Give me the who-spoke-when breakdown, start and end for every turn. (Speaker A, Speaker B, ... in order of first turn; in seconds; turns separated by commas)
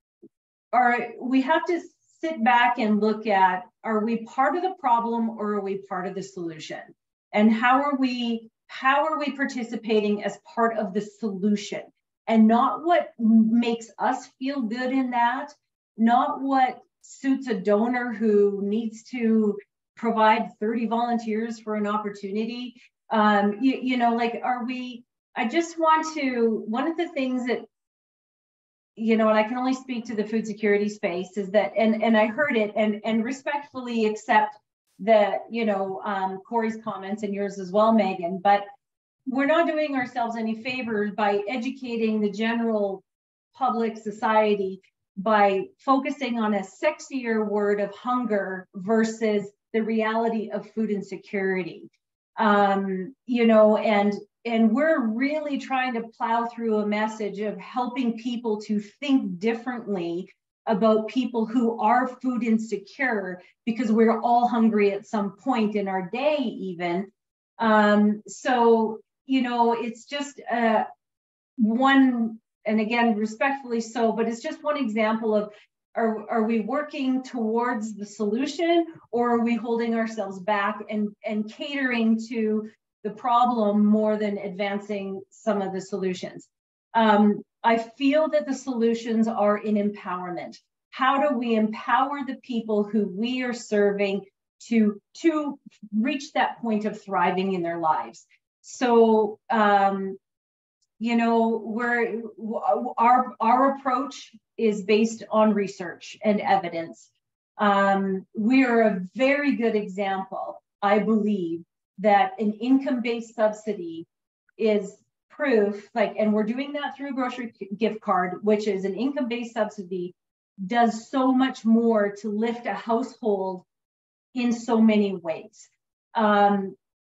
Speaker A: 0.7-27.7, Speaker A: 28.9-38.7, Speaker A: 39.3-43.0, Speaker A: 43.5-70.9, Speaker A: 71.6-100.2, Speaker A: 101.0-107.1, Speaker A: 107.6-114.0, Speaker A: 114.6-123.6, Speaker A: 124.3-126.8